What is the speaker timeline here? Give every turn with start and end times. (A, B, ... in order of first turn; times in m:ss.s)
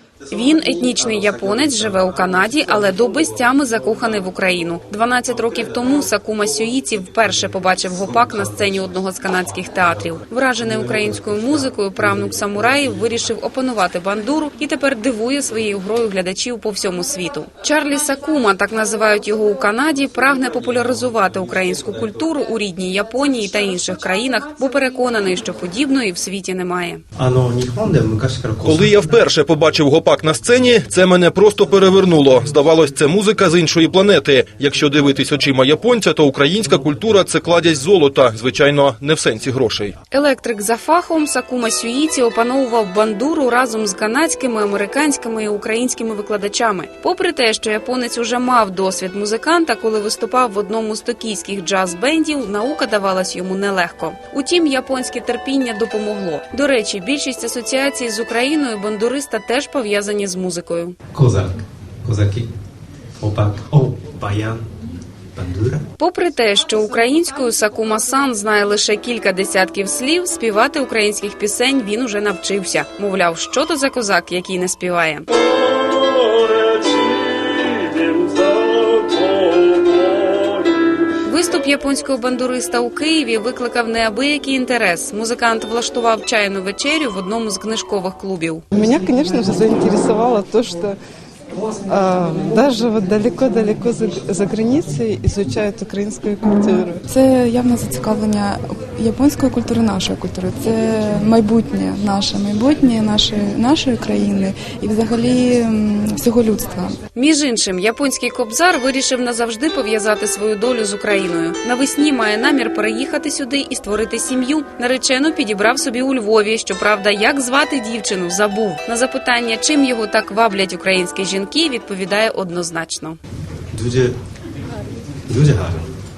0:00.3-0:27.0 A
0:11.0-0:11.3 B
0:27.2-0:29.0 B
0:28.6-0:39.9 C
0:40.1-1:01.0 A
1:01.1-1:02.5 B
1:03.2-1:04.7 B
1:05.3-1:05.8 B
1:06.0-1:15.3 A
1:21.2-1:28.6 A
1:28.7-1:31.0 D
1:31.9-1:37.0 D
1:37.0-1:47.0 E
1:47.1-2:03.2 A
2:03.7-2:04.2 B
2:05.3-2:05.9 B